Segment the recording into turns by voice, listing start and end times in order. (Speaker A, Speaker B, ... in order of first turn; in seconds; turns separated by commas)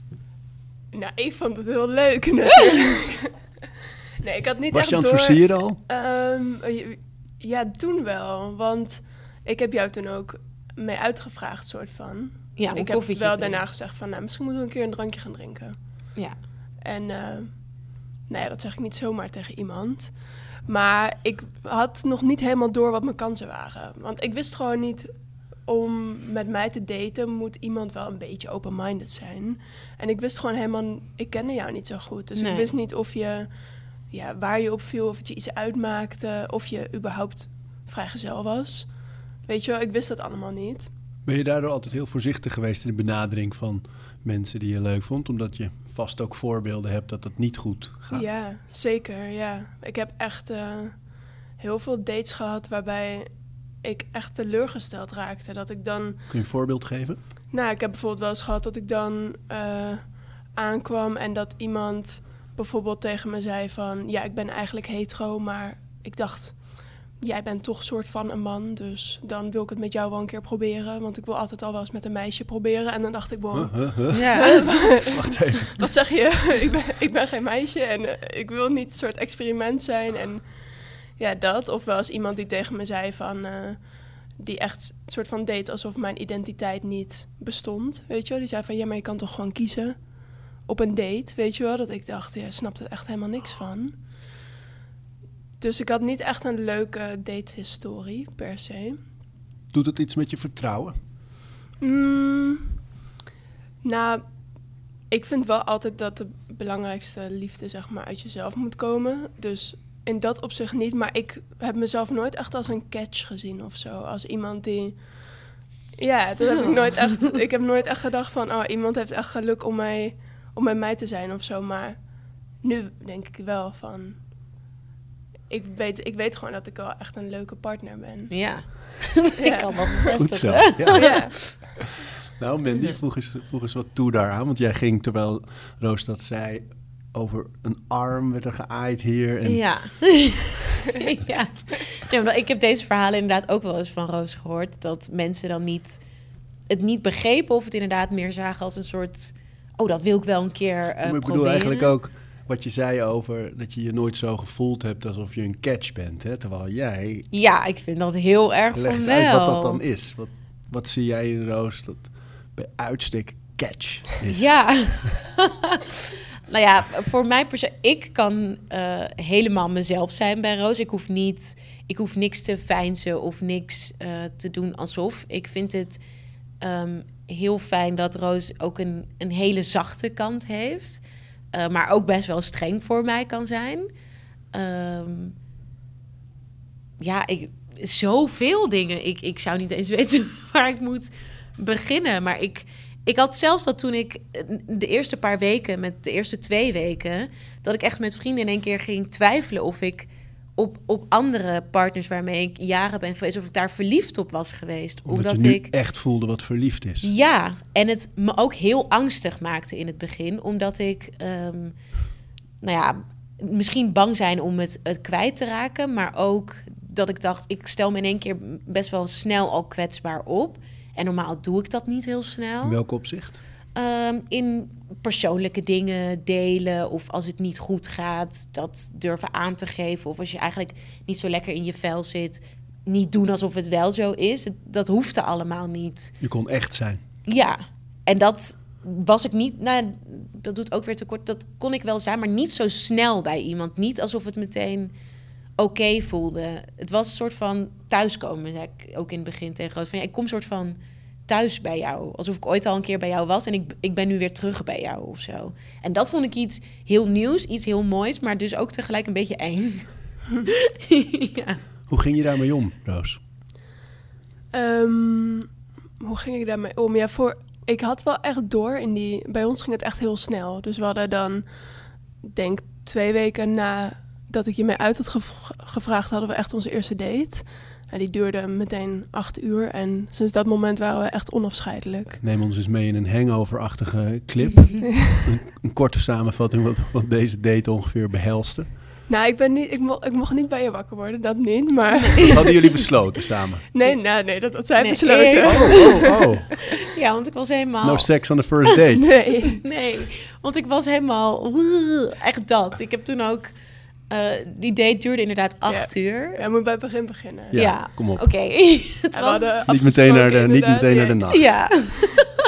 Speaker A: 0.9-3.3, Speaker A: 4.2-15.8, Speaker B: 4.7-5.8, Speaker C: 12.6-13.6, Speaker A: 16.8-25.1, Speaker A: 25.6-33.5, Speaker C: 32.4-32.7, Speaker A: 34.1-40.9, Speaker B: 41.2-48.3, Speaker A: 48.1-53.3, Speaker A: 53.8-56.3, Speaker B: 56.3-57.2, Speaker A: 57.5-93.9, Speaker B: 73.5-76.0, Speaker C: 74.1-74.8, Speaker A: 95.6-99.0, Speaker B: 99.7-101.0, Speaker A: 101.8-102.8, Speaker A: 103.8-104.2, Speaker A: 105.1-122.0, Speaker A: 122.6-124.2, Speaker A: 125.5-128.7, Speaker C: 128.3-131.5, Speaker A: 129.4-130.0, Speaker B: 130.2-131.7, Speaker A: 130.9-131.3, Speaker B: 132.4-140.2, Speaker C: 139.4-146.0, Speaker C: 146.7-151.9, Speaker B: 151.0-157.3, Speaker C: 157.3-159.8, Speaker B: 158.7-165.1, Speaker C: 164.3-176.0, Speaker C: 176.6-183.9, Speaker C: 184.5-185.3, Speaker C: 187.0-205.7, Speaker B: 205.1-207.1, Speaker C: 207.0-211.8, Speaker C: 212.6-222.8, Speaker B: 222.6-223.4, Speaker C: 223.8-236.1, Speaker B: 236.2-237.0, Speaker C: 237.3-244.9, Speaker C: 245.6-261.6, Speaker B: 261.9-263.2, Speaker A: 264.5-265.5, Speaker A: 266.0-271.4, Speaker A: 272.2-282.2, Speaker B: 282.2-288.7, Speaker A: 284.8-285.3, Speaker A: 289.1-292.9, Speaker C: 291.9-292.6, Speaker B: 292.3-293.7, Speaker A: 293.7-296.3, Speaker C: 294.8-298.4, Speaker B: 295.4-296.5, Speaker B: 297.8-299.2, Speaker A: 299.0-299.6, Speaker C: 299.6-303.5, Speaker C: 304.1-306.4, Speaker A: 305.7-307.7, Speaker B: 307.5-308.3, Speaker C: 307.6-309.5, Speaker A: 309.1-311.8, Speaker B: 309.7-311.5, Speaker C: 311.3-312.3